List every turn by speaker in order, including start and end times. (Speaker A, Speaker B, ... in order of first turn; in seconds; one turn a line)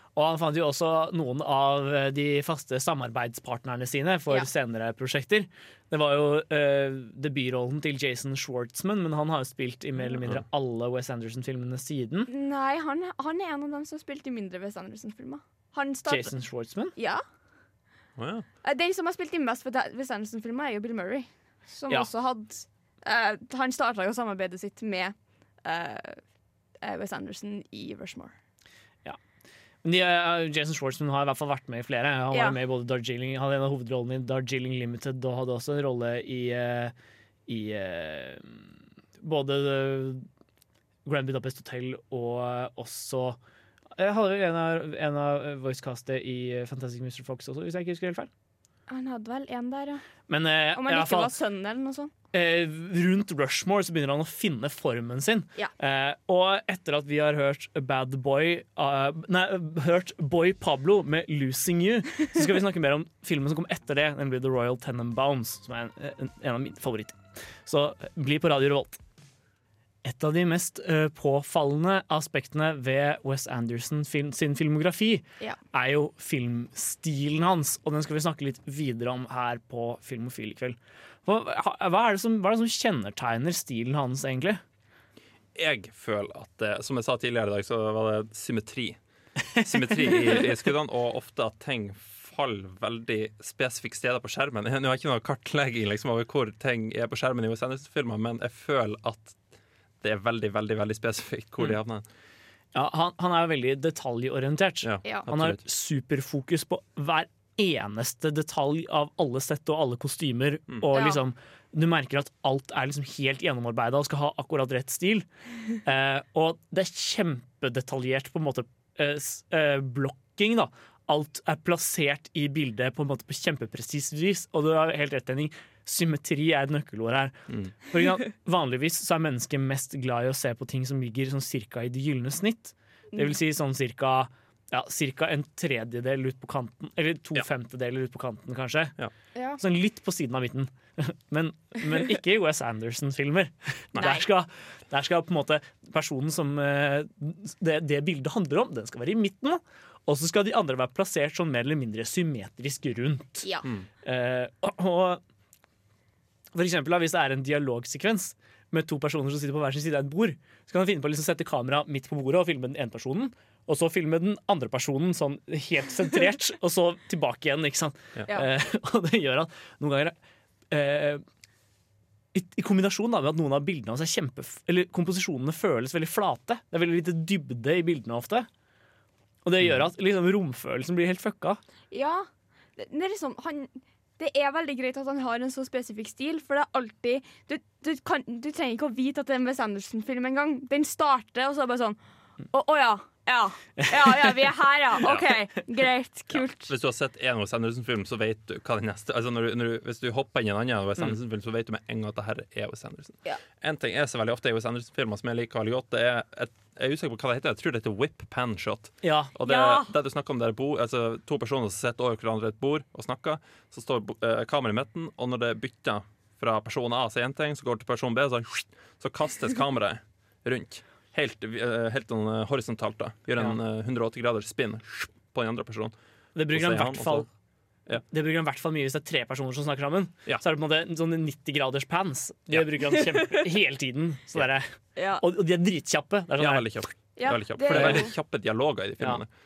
Speaker A: 0.2-12.3
Speaker B: 12.3-16.4
Speaker A: 16.1-16.9
Speaker B: 16.9-17.2
Speaker C: 18.2-18.5
Speaker B: 18.6-26.2
Speaker B: 26.8-28.3
Speaker A: 29.8-36.9
Speaker B: 32.3-32.6
Speaker A: 37.5-38.6
Speaker A: 39.2-40.3
Speaker A: 41.0-43.4
Speaker A: 44.0-48.3
Speaker B: 48.9-50.0
Speaker A: 50.3-51.3
Speaker B: 50.7-52.1
Speaker A: 52.3-69.0
Speaker A: 70.0-84.6
Speaker C: 85.5-89.0
Speaker C: 89.6-99.4
Speaker C: 100.0-102.0
Speaker A: 102.7-115.3
Speaker C: 104.8-105.6
Speaker B: 110.9-111.2
Speaker A: 115.8-139.0
Speaker B: 139.3-139.6
Speaker A: 139.6-153.5
Speaker B: 144.0-144.2
Speaker A: 154.0-155.2
Speaker A: 156.6-170.2
Speaker A: 170.7-171.2
Speaker A: 172.3-178.5
Speaker A: 179.4-181.6
Speaker B: 181.9-192.0
Speaker B: 192.5-196.7
Speaker C: 195.0-195.3
Speaker C: 196.7-226.0
Speaker A: 209.0-209.3
Speaker B: 209.5-209.9
Speaker A: 226.3-227.3
Speaker C: 226.5-227.3
Speaker A: 228.1-236.8
Speaker B: 235.0-235.2
Speaker C: 236.4-239.3
Speaker B: 237.2-238.1
Speaker A: 237.7-238.1